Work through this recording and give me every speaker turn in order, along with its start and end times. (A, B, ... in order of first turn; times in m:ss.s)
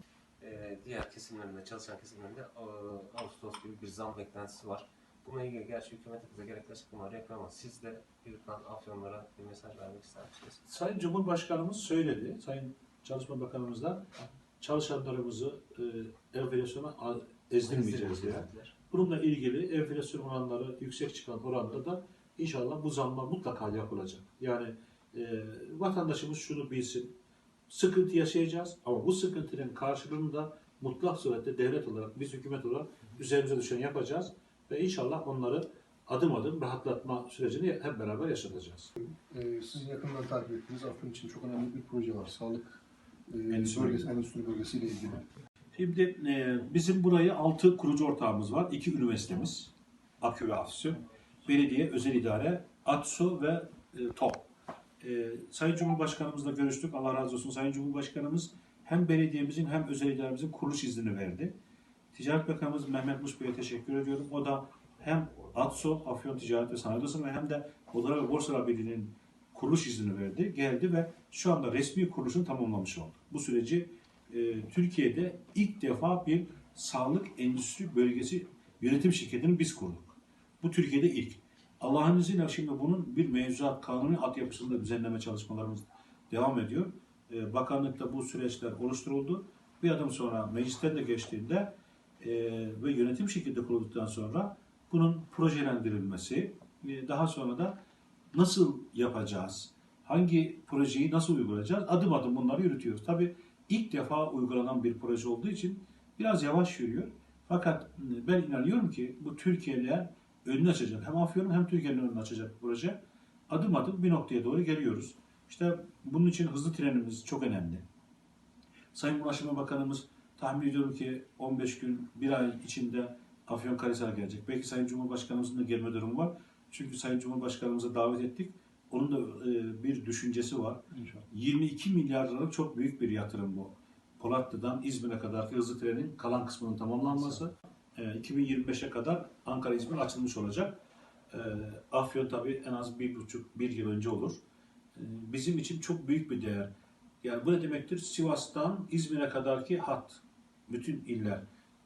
0:00.4-0:10.6 A
0:10.6-0:14.1 B
0:14.6-0:27.2 B
0:17.6-0:18.7 A
0:27.7-0:38.9 B
0:39.0-0:45.2 C
0:43.5-0:44.1 B
0:45.7-0:54.5 B
0:55.0-1:01.5 B
1:02.1-1:37.8 B
1:38.3-1:57.8 B
1:58.9-2:20.8 B
2:10.9-2:11.3 C
2:21.3-2:24.4 B
2:24.9-2:26.7 B
2:27.2-2:31.4 B